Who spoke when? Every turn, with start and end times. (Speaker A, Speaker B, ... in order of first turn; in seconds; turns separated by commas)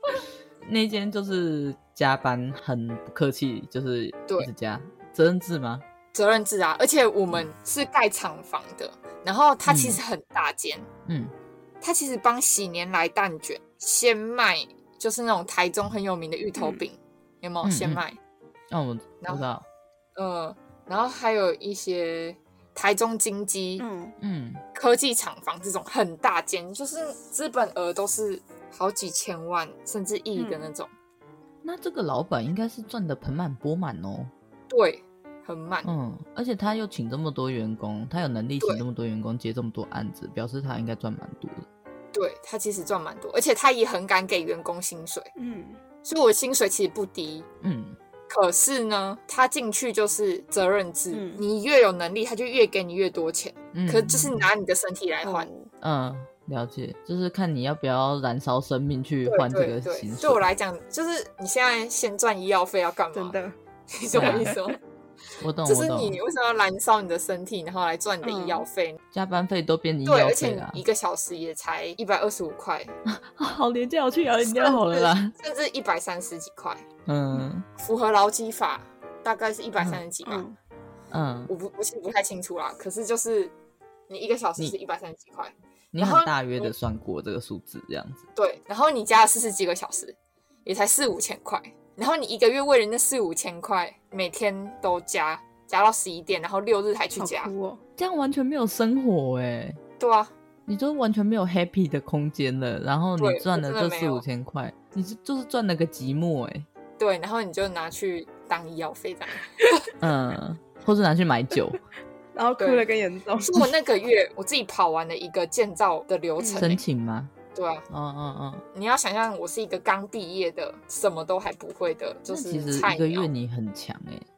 Speaker A: 0.6-5.8, Speaker B: 6.1-10.9, Speaker A: 9.7-10.0, Speaker A: 11.1-11.3, Speaker B: 11.8-18.2, Speaker C: 16.6-16.8, Speaker A: 17.6-18.0, Speaker A: 18.7-19.6, Speaker B: 19.2-19.5, Speaker B: 20.1-23.8, Speaker C: 23.8-24.1, Speaker A: 24.2-24.6, Speaker B: 24.7-30.9, Speaker C: 30.4-30.7, Speaker A: 31.6-34.3, Speaker B: 34.7-35.9, Speaker A: 35.8-41.6, Speaker B: 42.1-45.3, Speaker C: 45.4-45.8, Speaker B: 46.0-47.5, Speaker A: 47.6-48.0, Speaker B: 48.3-55.5, Speaker C: 51.1-51.4, Speaker A: 53.7-54.4, Speaker C: 55.2-55.7, Speaker A: 55.8-60.4, Speaker B: 59.2-63.4, Speaker C: 63.1-63.5, Speaker B: 63.9-64.8, Speaker C: 64.1-64.6, Speaker A: 64.1-64.5, Speaker A: 65.4-66.2, Speaker B: 65.6-69.0, Speaker C: 68.2-68.7, Speaker A: 69.1-70.8, Speaker B: 70.0-72.9, Speaker A: 73.0-75.3, Speaker B: 74.4-76.8, Speaker A: 77.0-77.7, Speaker B: 77.8-80.4, Speaker C: 80.2-80.5, Speaker A: 81.1-81.5, Speaker B: 81.5-83.5, Speaker B: 84.1-86.7, Speaker A: 85.9-88.2, Speaker B: 88.3-97.5, Speaker C: 97.2-97.8, Speaker A: 98.0-99.8, Speaker B: 100.0-100.3, Speaker A: 100.7-106.7, Speaker B: 103.2-104.2, Speaker B: 107.0-109.7, Speaker A: 110.0-111.8, Speaker C: 112.3-113.7, Speaker B: 112.6-112.8, Speaker B: 113.4-116.8, Speaker C: 116.4-116.7, Speaker A: 116.6-117.3, Speaker B: 117.5-117.8, Speaker A: 117.9-118.6, Speaker B: 118.7-123.3, Speaker A: 122.3-124.2